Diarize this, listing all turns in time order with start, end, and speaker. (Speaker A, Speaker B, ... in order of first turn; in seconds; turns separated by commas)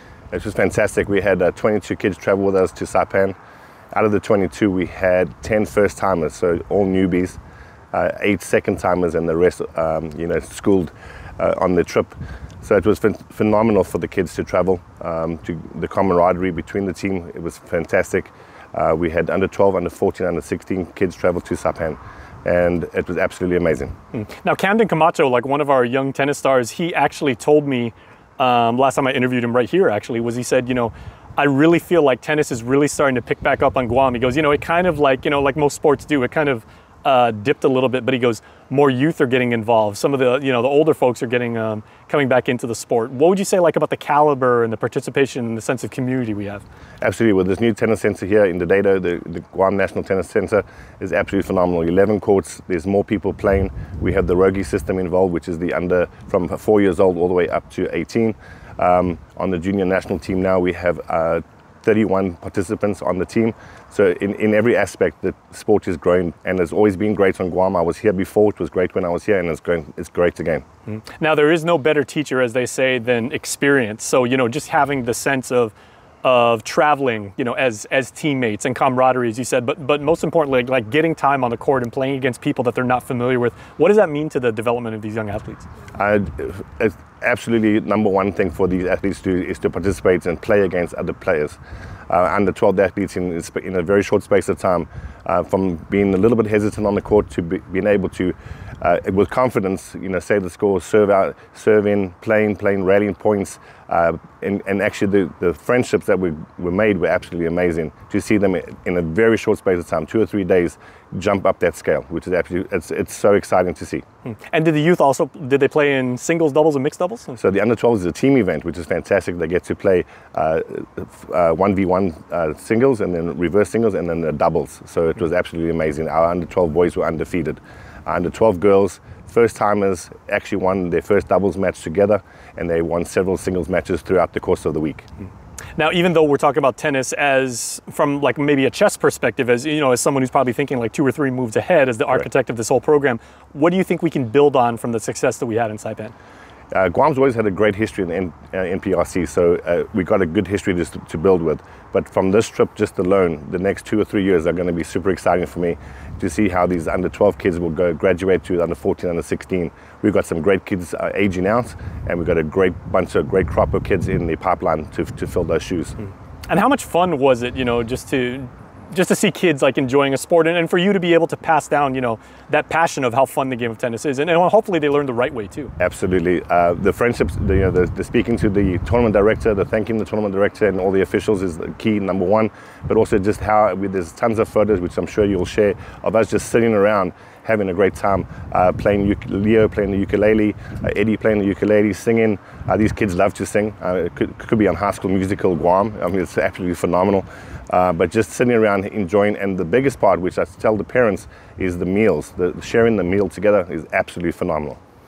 Speaker A: 0.3-3.4, Speaker A: 3.9-7.4, Speaker A: 7.9-23.9, Speaker B: 24.1-46.6, Speaker A: 47.0-70.6, Speaker B: 70.9-85.7, Speaker A: 86.0-91.6, Speaker A: 92.1-114.0, Speaker B: 114.5-117.4, Speaker A: 117.3-135.1, Speaker B: 135.8-146.1, Speaker A: 146.7-166.0, Speaker B: 166.5-175.7, Speaker A: 175.8-204.8